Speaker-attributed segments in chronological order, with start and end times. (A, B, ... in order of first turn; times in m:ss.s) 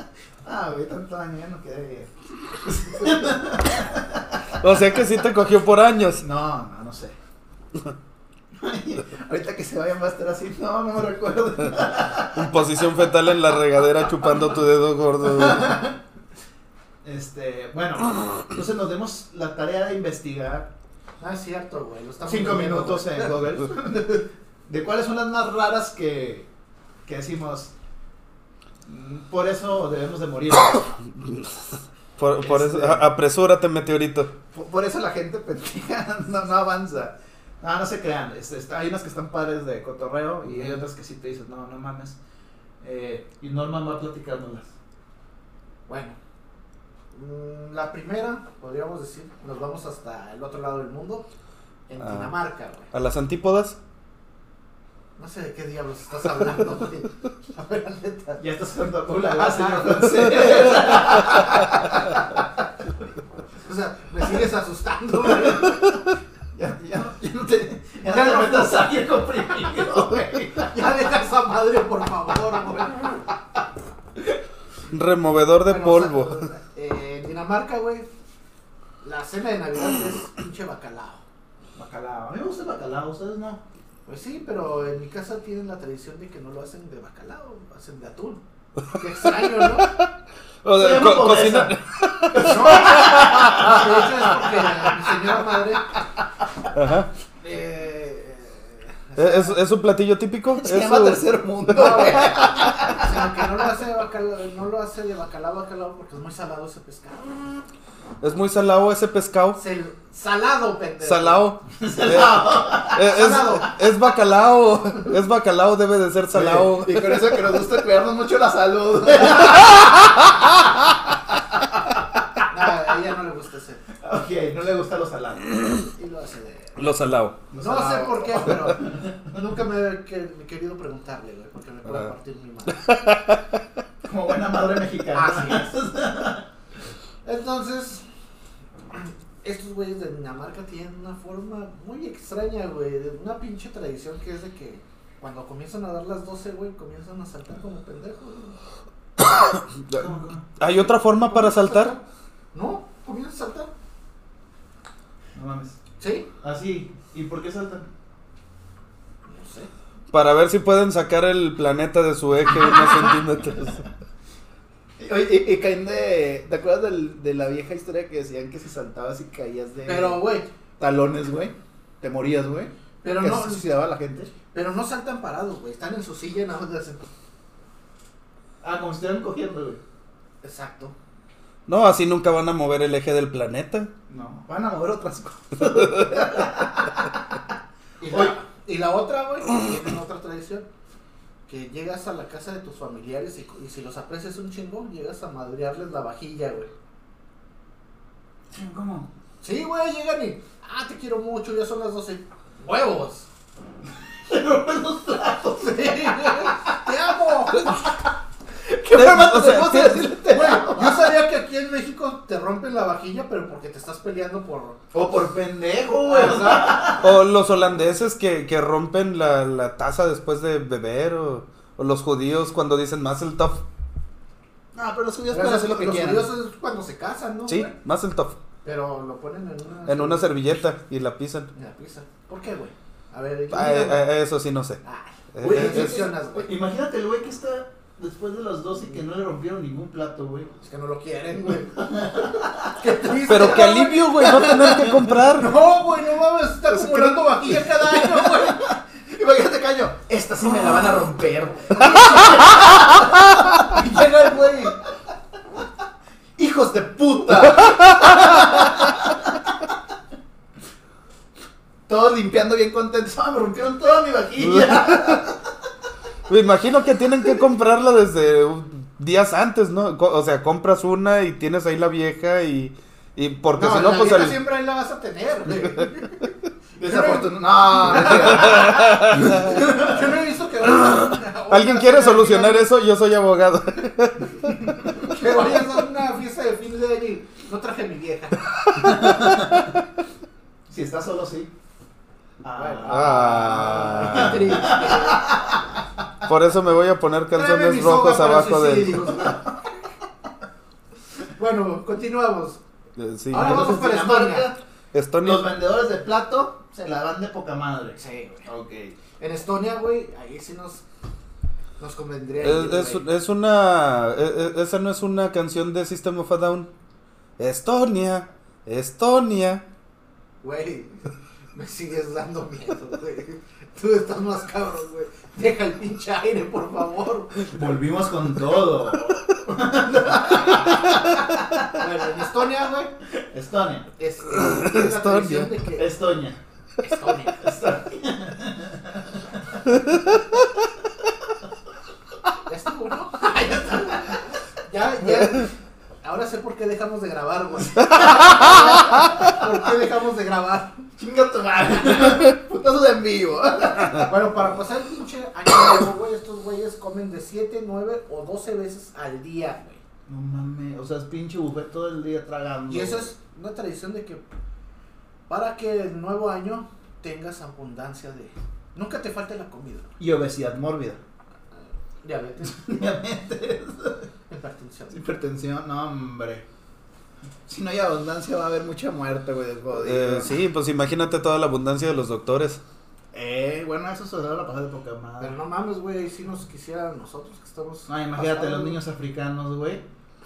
0:00.4-0:04.5 A
0:04.6-0:06.2 B
0:06.2-0:07.2 A
0:08.5-0:12.7 A
0:12.3-0:15.8 B
0:15.3-0:16.0 A
0:17.0-0:20.7 A
0:21.2-0:23.4 C
0:22.2-0:26.5 A
0:27.0-0:27.7 A
0:28.8-0:31.0 A
0:32.2-0:34.3 B
0:32.4-0:33.0 A
0:34.5-0:42.2 A
0:42.8-0:44.7 A
0:45.9-0:46.2 C
0:47.1-0:51.3 C
0:51.9-0:52.9 C
0:52.0-0:52.3 B
0:52.9-0:53.8 B
0:55.2-0:58.4 C
0:58.4-1:02.4 A
0:59.3-1:00.4 C
1:03.6-1:05.9 C
1:06.5-1:10.7 A
1:08.0-1:08.8 C
1:10.7-1:13.2 C
1:14.9-1:16.5 B
1:15.6-1:18.1 C
1:19.0-1:21.2 C
1:21.7-1:23.6 A
1:24.0-1:29.9 C
1:29.8-1:30.1 B
1:30.6-1:33.7 B
1:30.8-1:31.7 A
1:32.3-1:33.7 A
1:32.4-1:35.9 C
1:36.7-1:37.1 B
1:37.4-1:39.6 C
1:39.2-1:42.3 B
1:40.6-1:43.2 A
1:41.7-1:47.6 C
1:48.2-1:49.6 B
1:49.6-1:51.4 C
1:51.0-1:57.4 B
1:51.7-1:53.5 A
1:53.0-1:53.8 C
1:56.3-2:00.2 A
2:02.5-2:03.8 C
2:04.0-2:05.4 A
2:05.7-2:06.8 C
2:06.8-2:07.4 B
2:07.5-2:09.3 A
2:07.6-2:12.8 C
2:12.7-2:13.4 B
2:14.0-2:16.5 A
2:15.1-2:15.7 C
2:17.2-2:18.0 C
2:18.9-2:28.6 C
2:29.8-2:31.9 B
2:30.0-2:30.4 A
2:31.1-2:32.0 C
2:32.5-2:33.7 C
2:35.3-2:35.8 A
2:36.0-2:36.3 C
2:36.4-2:37.9 A
2:39.2-2:39.7 C
2:40.1-2:43.8 B
2:45.0-2:50.2 A
2:49.8-2:50.5 C
2:50.8-2:54.3 A
2:53.0-2:53.6 C
2:54.5-2:57.0 C
2:58.6-2:59.8 A
3:00.4-3:01.0 C
3:01.7-3:03.9 B
3:04.1-3:07.4 A
3:08.0-3:10.7 C
3:11.5-3:16.7 C
3:18.5-3:19.1 A
3:19.4-3:23.3 C
3:24.2-3:26.6 A
3:25.6-3:27.8 C
3:27.6-3:27.8 A
3:28.6-3:31.2 A
3:28.9-3:30.1 B
3:30.2-3:34.8 C
3:34.9-3:37.2 A
3:36.0-3:36.9 C
3:37.0-3:43.6 B
3:44.7-3:46.3 A
3:45.3-3:47.7 C
3:47.5-3:48.4 B
3:48.6-3:50.4 C
3:49.9-3:51.5 B
3:51.5-3:54.1 C
3:53.5-3:54.8 B
3:54.8-3:56.5 C
3:55.3-3:56.1 B
3:55.4-4:00.5 A
4:00.6-4:08.8 C
4:01.8-4:02.8 A
4:03.3-4:05.6 B
4:04.5-4:04.7 A
4:06.8-4:13.8 A
4:11.7-4:12.6 C
4:13.7-4:14.8 C
4:16.4-4:19.7 A
4:21.9-4:25.5 A
4:24.4-4:25.2 B
4:26.3-4:34.4 B
4:33.6-4:36.3 C
4:36.8-4:40.1 A
4:36.8-4:42.6 C
4:38.6-4:39.2 B
4:41.5-4:45.0 B
4:45.0-4:48.5 C
4:48.9-4:49.4 B
4:48.9-4:49.5 A
4:50.7-4:51.5 A
4:52.4-4:55.6 A
4:52.5-4:55.4 C
4:52.8-4:54.5 B
4:56.2-4:59.1 B
4:57.3-4:59.5 C
5:01.4-5:02.6 C
5:03.0-5:03.7 B
5:03.3-5:04.5 C
5:03.3-5:04.6 A
5:04.9-5:05.4 B
5:05.2-5:09.0 A
5:08.0-5:08.5 C
5:09.2-5:10.8 C
5:11.8-5:13.0 C
5:12.4-5:16.7 B
5:17.4-5:19.6 B
5:20.4-5:27.5 C
5:27.5-5:31.6 A
5:31.7-5:32.9 C
5:33.1-5:33.9 A
5:34.0-5:35.9 C
5:34.4-5:35.5 B
5:35.8-5:36.4 A
5:36.8-5:37.6 C
5:37.4-5:39.7 A
5:42.4-5:45.5 C
5:46.0-5:50.9 C
5:51.0-5:54.1 A
5:54.0-5:59.8 C
6:00.1-6:03.1 A
6:02.7-6:04.2 C
6:05.3-6:09.9 C
6:10.0-6:11.0 A
6:12.0-6:12.8 C
6:12.4-6:14.1 A
6:14.3-6:15.0 C
6:14.9-6:16.4 A
6:17.4-6:20.3 A
6:19.8-6:22.6 B
6:23.1-6:25.3 A
6:25.2-6:28.8 C
6:27.9-6:29.8 A